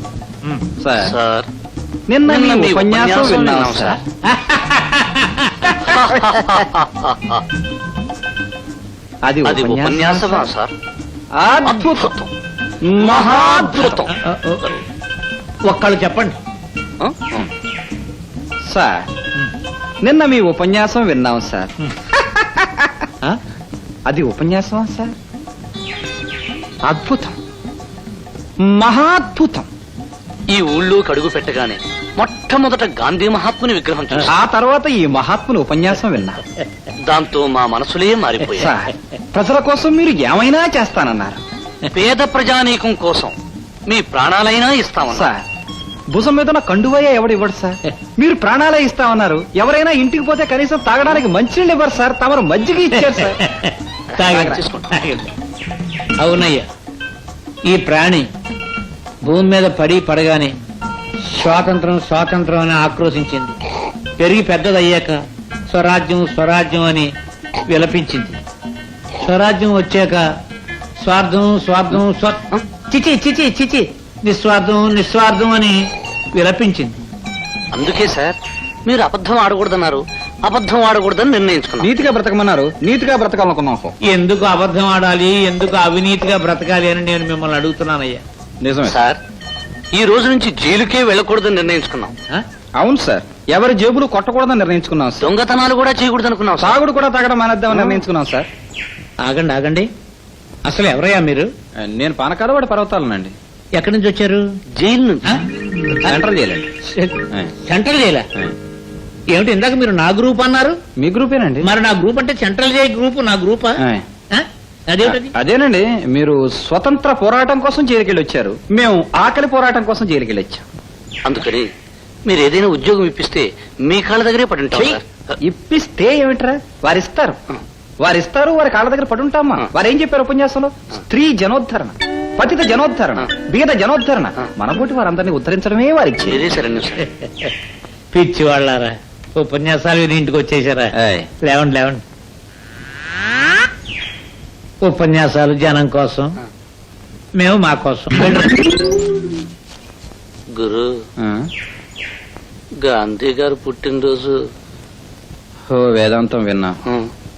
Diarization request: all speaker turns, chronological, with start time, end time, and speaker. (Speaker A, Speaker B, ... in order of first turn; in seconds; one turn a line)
Speaker A: 0.8-1.1
Speaker B: 1.0-1.5
Speaker A: 2.1-4.0
Speaker B: 2.3-4.0
Speaker C: 4.3-6.4
Speaker B: 5.8-7.4
Speaker A: 9.2-10.5
Speaker B: 9.4-10.7
Speaker A: 11.4-12.1
Speaker B: 11.7-12.3
Speaker A: 12.8-14.1
Speaker B: 13.0-14.2
Speaker C: 14.1-14.8
Speaker C: 15.7-16.4
Speaker B: 17.0-17.5
Speaker A: 18.7-19.1
Speaker A: 20.0-22.9
Speaker A: 24.1-25.1
Speaker A: 26.9-27.4
Speaker A: 28.6-29.7
Speaker B: 30.5-34.3
Speaker A: 34.3-36.4
Speaker B: 37.0-38.7
Speaker A: 38.5-41.4
Speaker B: 41.9-43.4
Speaker B: 43.9-45.3
Speaker A: 45.1-45.4
Speaker A: 46.1-53.4
Speaker C: 52.9-55.3
Speaker B: 54.1-55.0
Speaker A: 54.3-54.6
Speaker C: 56.2-56.7
Speaker C: 57.6-58.3
Speaker C: 59.2-60.5
Speaker C: 61.2-63.5
Speaker C: 64.2-67.1
Speaker C: 67.7-68.4
Speaker C: 69.2-70.2
Speaker C: 71.0-77.0
Speaker B: 77.7-81.9
Speaker A: 81.8-83.9
Speaker C: 84.1-88.2
Speaker A: 88.6-89.0
Speaker B: 88.9-89.2
Speaker B: 90.0-92.1
Speaker A: 92.8-95.3
Speaker B: 95.2-96.8
Speaker A: 96.6-98.5
Speaker C: 97.7-98.0
Speaker C: 99.2-99.9
Speaker C: 100.7-101.5
Speaker A: 101.8-103.3
Speaker C: 103.8-104.4
Speaker B: 104.8-105.3
Speaker A: 106.0-106.7
Speaker C: 107.0-108.3
Speaker C: 109.3-110.8
Speaker A: 111.0-111.7
Speaker C: 111.6-115.3
Speaker A: 115.0-120.7
Speaker B: 121.2-121.7
Speaker B: 122.3-125.0
Speaker A: 124.7-127.4
Speaker A: 128.0-136.5
Speaker B: 136.3-137.1
Speaker C: 137.0-137.5
Speaker C: 138.1-142.0
Speaker A: 140.9-141.3
Speaker C: 144.8-146.4
Speaker C: 147.4-148.5
Speaker B: 150.6-150.9
Speaker A: 151.2-151.5
Speaker B: 152.8-154.4
Speaker A: 155.7-156.8